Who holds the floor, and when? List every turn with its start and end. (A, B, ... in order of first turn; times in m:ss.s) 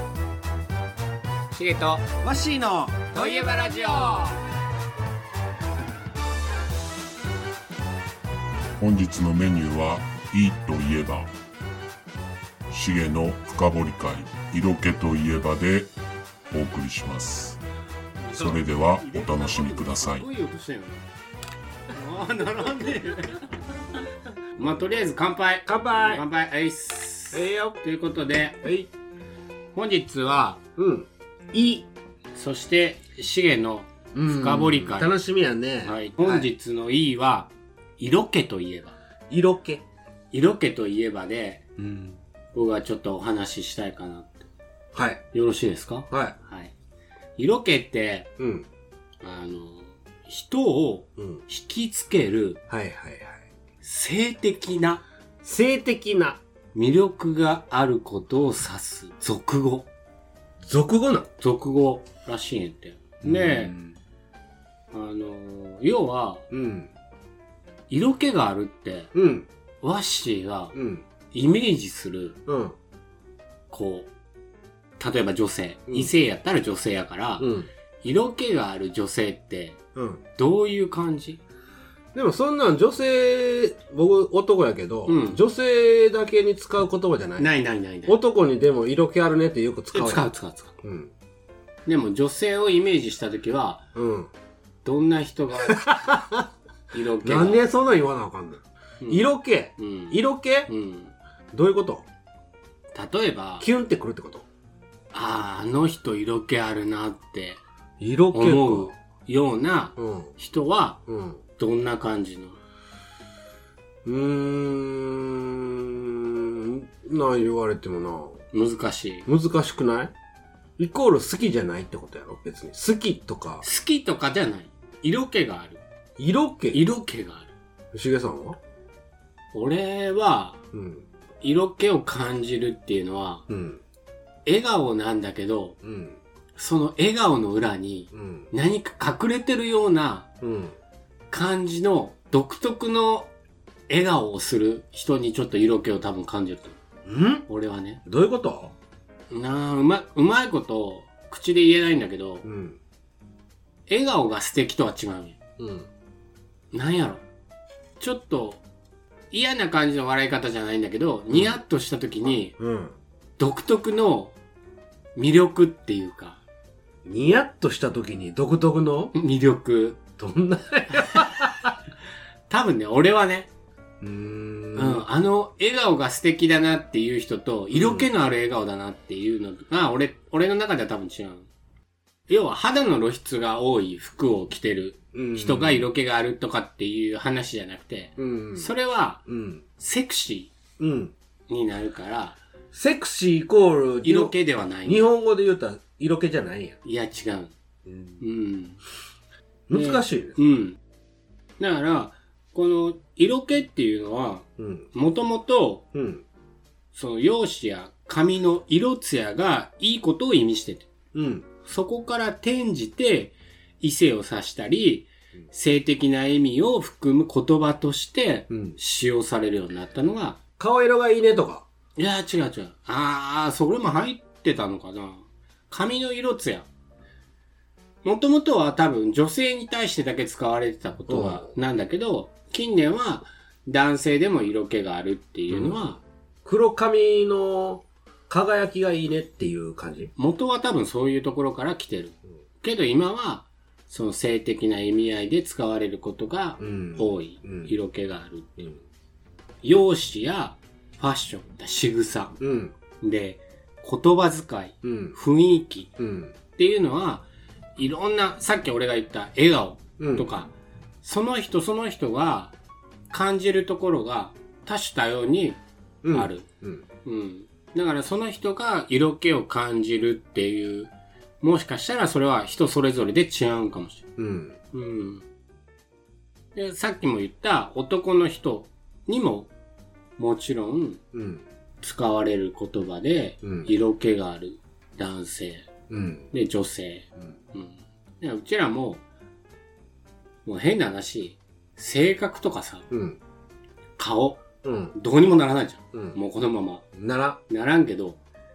0:01.5-0:02.1 A
0:02.2-0:04.2 B
0:03.1-0:04.4 A
0:08.8-0:11.3 C
0:12.7-0:15.9 C
0:16.5-0:17.6 C
0:18.2-0:21.0 A
0:18.4-0:20.3 C
0:21.9-0:23.5 A
0:24.6-0:28.6 A
0:25.7-0:26.2 B
0:27.3-0:27.8 B
0:28.6-0:28.9 B
0:29.7-0:30.6 A
0:30.8-0:31.9 B
0:32.4-0:35.2 A
0:34.1-0:36.5 B
0:35.8-0:39.0 A
0:39.3-0:39.8 B
0:40.3-0:41.6 A
0:41.8-0:42.2 B
0:42.5-0:44.5 A
0:44.9-0:45.2 B
0:45.3-0:46.7 A
0:46.1-0:46.4 B
0:47.4-0:48.3 A
0:48.4-0:48.7 B
0:49.2-0:52.6 A
0:51.2-0:51.4 B
0:52.7-0:53.4 B
0:53.8-0:55.0 A
0:55.4-0:56.4 B
0:56.7-0:59.9 A
1:00.6-1:01.3 B
1:01.4-1:03.7 A
1:03.2-1:04.0 B
1:04.9-1:06.4 A
1:06.5-1:06.9 B
1:07.9-1:09.1 A
1:09.1-1:09.5 B
1:09.8-1:10.8 A
1:10.7-1:11.0 B
1:11.3-1:12.4 A
1:12.5-1:12.8 B
1:13.7-1:14.1 A
1:15.0-1:17.5 A
1:17.4-1:17.7 B
1:18.0-1:19.8 A
1:20.0-1:20.2 B
1:20.4-1:21.4 A
1:22.1-1:27.5 B
1:25.1-1:25.4 A
1:27.4-1:28.2 A
1:28.1-1:30.3 B
1:29.9-1:30.8 A
1:30.8-1:31.1 B
1:31.9-1:33.8 A
1:34.0-1:34.3 B
1:34.8-1:36.0 A
1:35.7-1:36.5 B
1:36.9-1:37.6 A
1:37.2-1:40.7 B
1:39.0-1:41.1 A
1:41.5-1:42.1 B
1:42.9-1:43.7 A
1:43.6-1:44.5 B
1:45.1-1:47.6 A
1:48.0-1:48.9 B
1:48.3-1:51.0 A
1:50.0-1:50.3 B
1:51.1-1:51.4 B
1:51.6-1:52.6 A
1:54.0-1:58.4 B
1:58.5-1:59.3 A
1:59.3-2:00.1 B
2:00.8-2:03.6 B
2:03.6-2:05.8 A
2:06.2-2:06.8 B
2:06.7-2:07.5 A
2:07.9-2:08.6 B
2:09.5-2:10.6 A
2:10.7-2:11.1 B
2:11.4-2:13.4 A
2:13.5-2:13.8 B
2:14.5-2:15.8 A
2:15.8-2:16.2 B
2:16.6-2:20.3 A
2:18.1-2:18.5 B
2:20.4-2:20.8 B
2:21.3-2:23.3 A
2:23.9-2:26.8 A
2:27.0-2:27.5 B
2:27.5-2:28.0 A
2:28.0-2:28.8 B
2:29.3-2:32.5 A
2:32.4-2:32.8 B
2:33.9-2:35.4 A
2:35.6-2:35.9 B
2:36.7-2:37.2 A
2:38.0-2:38.6 A
2:39.3-2:42.6 A
2:42.6-2:43.0 B
2:43.4-2:44.4 A
2:45.2-2:46.4 A
2:47.0-2:49.2 B
2:49.2-2:50.0 A
2:50.2-2:51.7 B
2:50.9-2:51.5 A
2:52.5-2:53.5 A
2:54.0-2:55.0 B
2:54.8-3:01.5 A
2:57.7-2:58.1 B
3:02.3-3:09.2 A
3:05.1-3:05.9 B
3:08.2-3:08.7 B
3:09.3-3:09.6 B
3:09.8-3:10.5 A
3:10.8-3:11.1 B
3:11.5-3:12.4 A
3:12.7-3:16.8 B
3:14.0-3:15.1 A
3:16.8-3:17.5 A
3:17.9-3:18.2 B
3:18.2-3:18.8 A
3:19.7-3:20.4 B
3:19.7-3:20.8 A
3:21.6-3:25.9 A
3:24.6-3:24.9 B
3:25.9-3:26.2 B
3:26.9-3:30.9 A
3:31.1-3:31.5 B
3:31.7-3:40.4 A
3:38.5-3:38.8 B
3:40.6-3:41.6 B
3:42.0-3:46.7 A
3:48.0-3:56.0 A
3:51.1-3:51.5 B
3:55.5-3:55.8 B
3:56.4-4:00.1 B
4:00.2-4:08.7 A
4:06.6-4:07.7 B
4:09.6-4:12.4 A
4:12.4-4:12.7 B
4:13.0-4:15.9 A
4:14.8-4:15.2 B
4:16.0-4:16.4 B
4:16.6-4:17.3 A
4:17.8-4:20.5 A
4:20.0-4:20.3 B
4:21.0-4:22.5 A
4:23.1-4:25.6 A
4:26.0-4:26.8 B
4:26.1-4:26.4 A
4:27.0-4:34.1 A
4:34.2-4:34.6 B
4:34.7-4:35.2 A
4:36.6-4:39.5 A
4:40.2-4:41.0 A
4:41.1-4:41.4 B
4:41.8-4:45.7 A
4:43.4-4:43.7 B
4:45.9-4:46.3 B
4:46.3-4:49.0 A
4:50.5-4:52.9 A
4:52.9-4:53.2 B
4:54.0-4:56.8 A
4:54.6-4:54.9 B
4:57.0-4:57.4 B
4:57.5-4:58.2 A